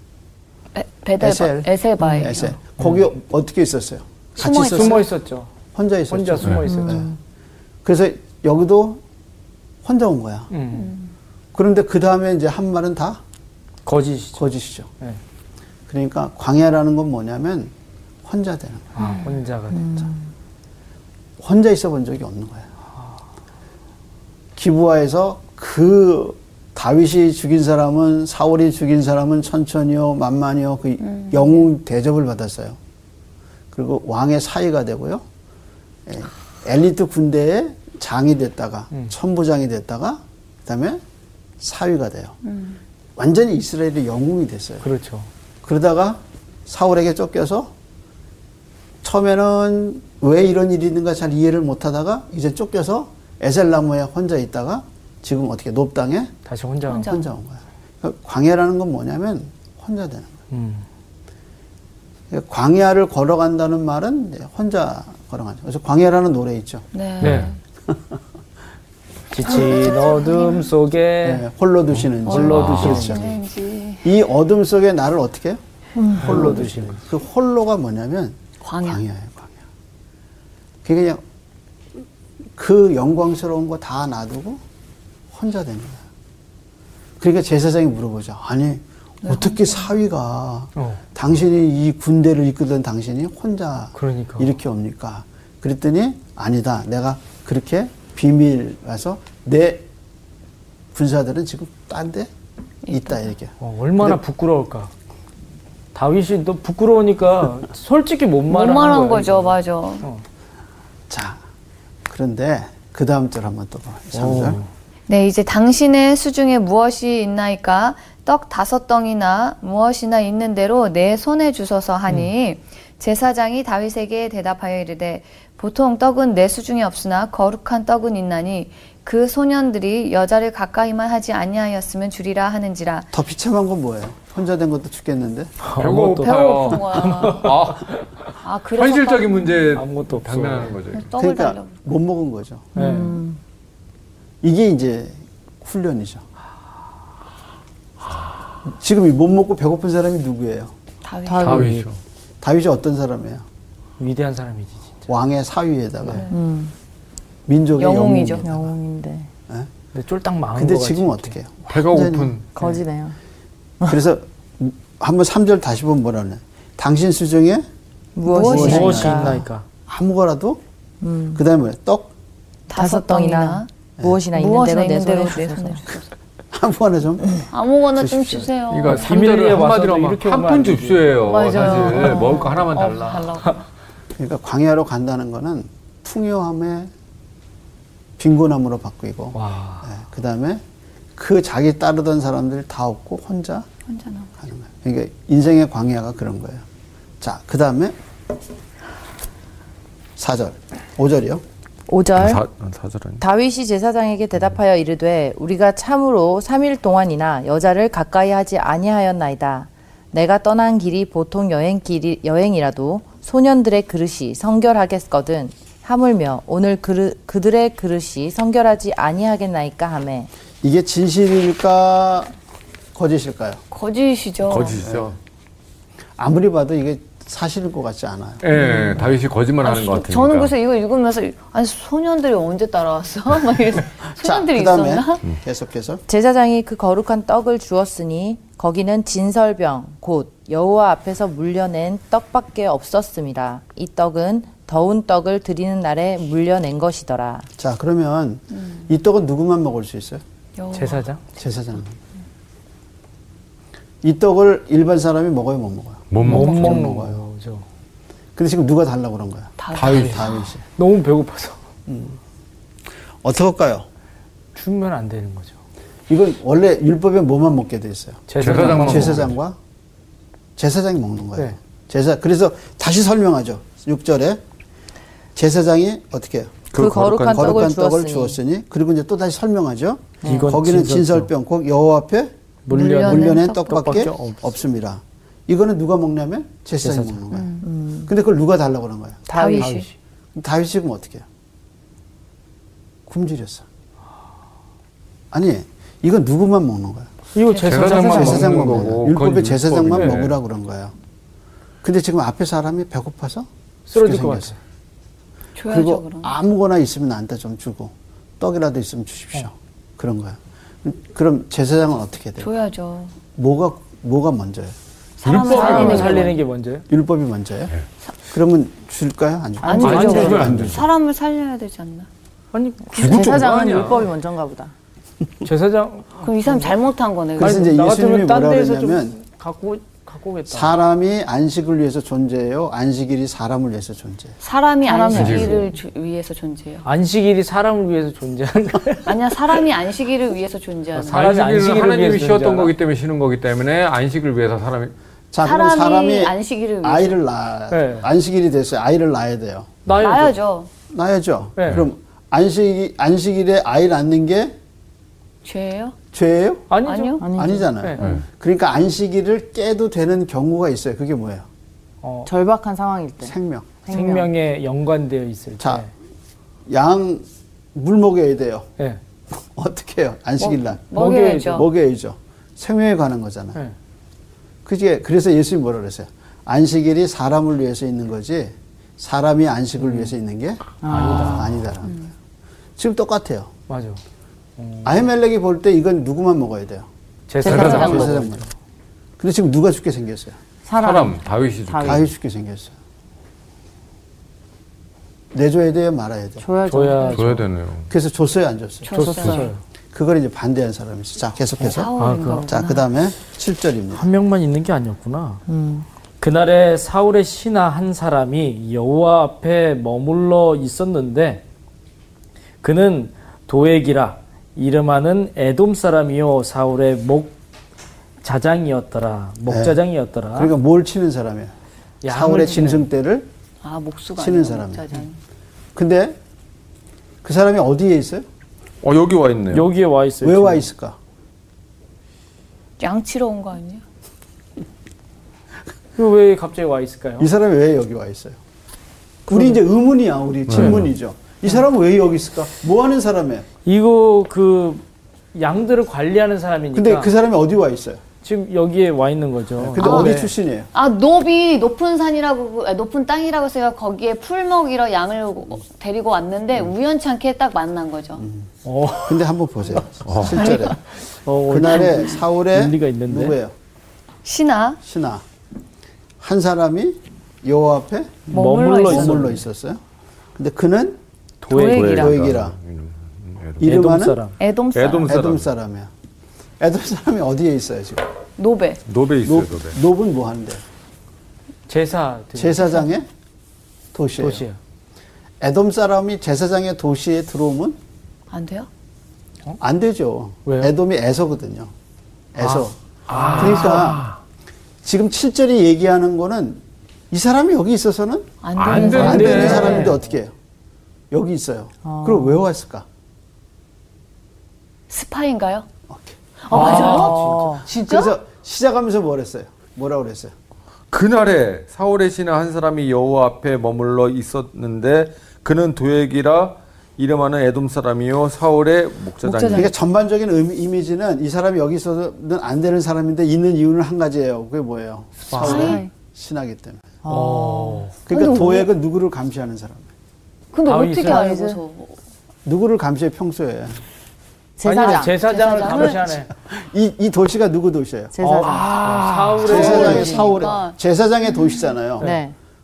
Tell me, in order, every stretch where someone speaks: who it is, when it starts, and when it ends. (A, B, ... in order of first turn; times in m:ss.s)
0:00.7-0:02.5 A
0:01.2-0:05.1 B
0:02.8-0:03.1 C
0:04.4-0:05.0 A
0:04.6-0:05.5 C
0:05.7-0:07.1 B
0:06.1-0:07.0 C
0:06.7-0:07.1 D
0:07.8-0:09.0 B
0:09.8-0:10.5 B
0:10.5-0:10.9 C
0:10.7-0:11.1 A
0:11.5-0:13.2 B
0:13.8-0:14.5 C
0:14.4-0:14.9 B
0:15.9-0:17.7 B
0:18.2-0:19.0 B
0:19.0-0:19.9 C
0:19.0-0:19.2 A
0:19.7-0:20.1 D
0:21.4-0:22.7 B
0:24.6-0:32.8 B
0:31.0-0:31.6 A
0:33.7-0:35.2 B
0:36.0-0:41.0 B
0:41.6-0:42.4 B
0:42.4-0:42.8 A
0:43.2-0:44.8 B
0:44.8-0:45.3 C
0:45.6-0:47.7 B
0:49.0-0:56.3 B
0:56.4-0:57.1 C
0:56.9-0:57.3 A
0:57.0-1:00.4 B
1:00.5-1:00.8 C
1:02.3-1:07.3 B
1:06.9-1:07.6 A
1:07.2-1:07.5 E
1:07.9-1:08.2 B
1:09.3-1:11.4 C
1:09.4-1:10.7 A
1:11.2-1:13.4 B
1:12.2-1:13.2 C
1:12.3-1:14.1 A
1:12.4-1:13.1 E
1:14.0-1:15.6 B
1:16.0-1:16.4 D
1:16.1-1:19.6 B
1:16.2-1:17.0 C
1:18.6-1:19.0 A
1:20.8-1:21.2 B
1:22.6-1:24.6 B
1:25.3-1:26.0 B
1:27.2-1:39.9 B
1:29.2-1:29.8 A
1:30.8-1:31.0 C
1:33.9-1:34.5 C
1:40.9-1:42.3 B
1:42.8-1:43.2 A
1:42.9-1:44.2 B
1:43.6-1:44.9 C
1:45.9-1:50.2 C
1:48.5-1:50.0 A
1:51.1-1:51.4 B
1:52.1-1:54.6 B
1:54.1-1:54.7 C
1:55.1-2:13.1 A
2:13.1-2:15.5 B
2:15.6-2:18.0 C
2:15.8-2:17.9 E
2:16.2-2:17.6 A
2:18.4-2:19.8 A
2:18.7-2:21.1 E
2:19.7-2:20.8 C
2:20.9-2:21.7 A
2:21.2-2:22.7 B
2:22.7-2:23.4 D
2:22.8-2:23.2 C
2:24.4-2:26.2 B
2:28.6-2:30.7 B
2:31.0-2:31.7 A
2:31.2-2:31.6 D
2:31.4-2:32.0 E
2:31.4-2:31.9 C
2:32.4-2:33.4 B
2:34.0-2:34.9 C
2:35.1-2:36.3 B
2:36.1-2:36.4 A
2:36.3-2:36.7 D
2:37.5-2:38.7 B
2:37.8-2:38.4 A
2:38.4-2:39.3 D
2:39.9-2:41.3 C
2:40.5-2:42.3 B
2:41.7-2:42.5 E
2:42.6-2:43.2 D
2:43.8-2:47.6 B
2:48.2-2:49.4 D
2:48.3-2:49.0 A
2:48.3-2:50.6 B
2:48.4-2:49.6 C
2:51.0-2:51.4 D
2:51.3-2:52.1 B
2:52.7-2:55.8 D
2:52.7-2:53.7 A
2:54.3-2:56.1 A
2:56.5-2:57.4 B
2:57.5-2:59.1 A
2:58.0-3:01.9 C
2:58.7-3:03.4 E
3:01.2-3:03.6 A
3:01.4-3:02.4 D
3:04.2-3:06.9 B
3:08.2-3:10.6 B
3:09.3-3:09.9 C
3:11.2-3:13.6 B
3:13.9-3:14.3 A
3:14.4-3:16.6 B
3:17.2-3:18.0 B
3:20.2-3:21.4 B
3:21.9-3:22.4 D
3:22.2-3:23.2 E
3:23.2-3:40.3 D
3:40.6-3:42.3 B
3:42.9-3:43.6 B
3:43.7-3:44.8 A
3:44.4-3:45.2 E
3:44.8-3:45.2 B
3:46.2-3:48.4 B
3:48.4-3:50.5 E
3:48.6-3:49.1 A
3:49.6-3:55.2 A
3:54.2-3:56.0 B
3:56.1-4:07.4 D
4:07.6-4:10.2 B
4:10.6-4:11.0 A
4:10.7-4:11.2 C
4:11.4-4:12.0 B
4:14.0-4:17.2 B
4:16.1-4:16.7 E
4:16.2-4:17.6 C
4:18.4-4:20.6 B
4:19.6-4:20.5 A
4:19.7-4:20.4 E
4:19.8-4:21.6 C
4:21.9-4:22.2 B
4:23.2-4:23.8 B
4:24.5-4:25.6 C
4:26.1-4:29.6 B
4:28.3-4:29.2 C
4:28.4-4:29.3 E
4:30.6-4:34.4 B
4:35.4-4:36.7 B
4:36.7-4:37.6 E
4:36.7-4:38.4 D
4:37.3-4:42.3 B
4:40.2-4:40.5 D
4:40.2-4:41.3 C
4:42.6-4:44.4 C
4:42.7-4:44.1 A
4:42.9-4:49.3 B
4:46.8-4:47.2 C
4:47.3-4:47.6 A
4:47.6-4:48.1 D
4:49.3-4:49.8 D
4:49.3-4:49.9 A
4:49.5-4:49.9 C
4:50.3-4:51.2 B
4:53.1-4:53.6 B
4:55.3-4:57.1 B
4:57.3-4:58.8 C
4:57.5-4:58.4 A
4:57.6-5:00.3 E
4:58.1-5:00.9 B
5:01.8-5:04.5 B
5:03.9-5:04.6 C
5:05.6-5:06.3 A
5:05.7-5:12.5 B
5:12.4-5:13.2 A
5:13.3-5:14.8 B
5:15.2-5:16.4 A
5:15.2-5:16.3 E
5:15.4-5:16.8 C
5:15.7-5:16.1 B
5:16.9-5:17.7 B
5:18.3-5:20.9 B
5:19.6-5:22.1 A
5:19.7-5:20.6 C
5:19.8-5:20.9 E
5:22.5-5:24.0 C
5:22.9-5:24.0 E
5:23.0-5:24.7 D
5:25.4-5:26.7 C
5:26.2-5:27.7 A
5:27.4-5:29.2 B
5:27.4-5:30.8 C
5:30.5-5:34.4 B
5:34.4-5:36.8 A
5:34.8-5:35.6 D
5:35.1-5:35.6 E
5:36.8-5:39.6 C
5:39.0-5:41.2 A
5:40.9-5:42.7 C
5:41.1-5:44.9 E
5:45.3-5:49.8 B
5:45.4-5:47.2 A
5:47.7-5:48.1 C
5:49.9-5:50.4 C
5:50.0-5:50.7 A
5:50.9-5:54.6 B
5:51.6-5:51.8 C
5:55.4-5:56.0 A
5:56.1-5:56.7 B
5:56.7-5:58.1 C
5:56.8-5:57.3 A
5:57.2-5:57.6 D
5:57.3-6:01.4 B
6:02.0-6:02.3 C
6:02.2-6:04.3 D
6:03.2-6:03.7 B
6:03.9-6:05.9 C
6:05.6-6:05.8 B
6:06.7-6:08.7 B
6:09.3-6:13.6 B
6:10.4-6:11.6 A
6:10.9-6:11.6 C
6:14.6-6:22.1 B
6:19.8-6:20.1 C
6:20.8-6:21.6 D
6:20.8-6:21.6 C
6:21.8-6:22.1 A
6:22.8-6:23.5 B
6:23.7-6:24.0 C
6:24.6-6:25.0 C
6:24.8-6:26.9 B
6:27.3-6:28.5 C
6:27.4-6:28.4 B
6:27.4-6:28.1 A
6:27.4-6:28.1 D
6:27.5-6:27.8 E
6:29.2-6:30.4 B
6:30.6-6:32.1 D
6:30.8-6:32.0 E
6:31.8-6:32.7 B
6:35.3-6:36.5 B
6:36.4-6:37.4 D
6:36.7-6:37.4 C
6:37.1-6:37.9 E
6:37.9-6:39.3 B
6:38.8-6:39.5 A
6:38.9-6:39.6 C
6:39.9-6:44.0 B
6:41.6-6:42.8 A
6:42.0-6:42.5 C
6:43.9-6:45.4 C
6:45.5-6:45.8 D
6:46.2-6:51.4 C
6:52.6-6:57.3 C
6:58.2-7:00.5 C
6:59.5-6:59.8 B
7:00.3-7:01.5 B
7:02.0-7:02.8 C
7:02.1-7:03.3 B
7:03.6-7:05.2 A
7:04.2-7:05.0 B
7:05.7-7:06.2 B
7:07.2-7:08.2 B
7:08.8-7:09.7 E
7:09.5-7:10.7 C
7:10.2-7:11.0 B
7:12.8-7:13.8 A
7:16.0-7:17.3 C
7:17.2-7:18.4 B
7:19.2-7:23.4 B
7:20.5-7:20.9 E
7:20.5-7:20.8 C
7:23.6-7:24.8 C
7:25.3-7:27.1 C
7:26.7-7:28.0 B
7:28.2-7:30.3 C
7:29.6-7:30.7 B
7:29.8-7:30.2 A
7:30.7-7:38.2 A
7:38.2-7:38.5 B
7:38.6-7:39.8 C
7:39.0-7:40.8 B
7:40.0-7:40.6 E
7:40.3-7:40.7 A
7:41.1-7:43.4 C
7:41.4-7:43.5 B
7:44.2-7:44.8 A
7:44.8-7:45.2 B
7:46.2-7:49.8 B
7:48.3-7:49.3 A
7:48.3-7:49.4 C
7:50.4-7:51.0 B
7:51.4-7:52.1 C
7:51.5-7:52.1 A
7:51.5-7:53.8 E
7:51.9-7:52.6 B
7:53.6-7:54.4 C
7:53.6-7:54.2 B
7:54.4-7:55.2 A
7:54.7-7:55.5 E
7:55.0-7:55.9 B
7:56.6-7:58.1 B
7:58.4-7:58.8 A
7:58.9-7:59.8 E
7:59.2-8:00.6 B
8:01.7-8:02.8 C
8:02.4-8:03.1 B
8:03.9-8:04.4 B
8:04.2-8:04.6 C
8:05.4-8:07.8 B
8:08.3-8:08.7 A
8:09.6-8:11.7 B
8:10.4-8:10.7 C
8:12.3-8:12.8 B
8:12.4-8:13.8 C
8:13.1-8:14.2 E
8:13.3-8:14.1 B
8:14.8-8:20.3 B
8:18.4-8:19.9 A
8:18.6-8:19.9 E
8:18.8-8:20.0 C
8:21.1-8:22.8 B
8:21.8-8:22.3 D
8:24.9-8:25.6 A
8:25.9-8:26.2 B
8:26.4-8:28.1 A
8:26.5-8:27.6 C
8:26.5-8:27.6 D
8:27.7-8:30.3 B
8:30.9-8:39.7 E
8:39.2-8:39.7 D
8:39.5-8:46.9 B
8:45.3-8:45.8 C
8:45.4-8:45.9 A
8:47.0-8:48.0 D
8:47.1-8:47.9 C
8:48.0-8:49.9 B
8:48.1-8:48.7 A
8:50.5-8:52.0 A
8:50.7-8:51.4 C
8:51.0-8:51.6 D
8:52.4-8:53.8 B
8:54.6-8:55.2 D
8:54.6-8:56.3 C
8:55.1-8:56.0 A
8:55.2-8:58.7 B
8:58.1-9:00.2 D
8:58.2-9:00.3 C
8:59.4-9:02.1 B
8:59.5-9:00.8 A
9:02.0-9:02.3 D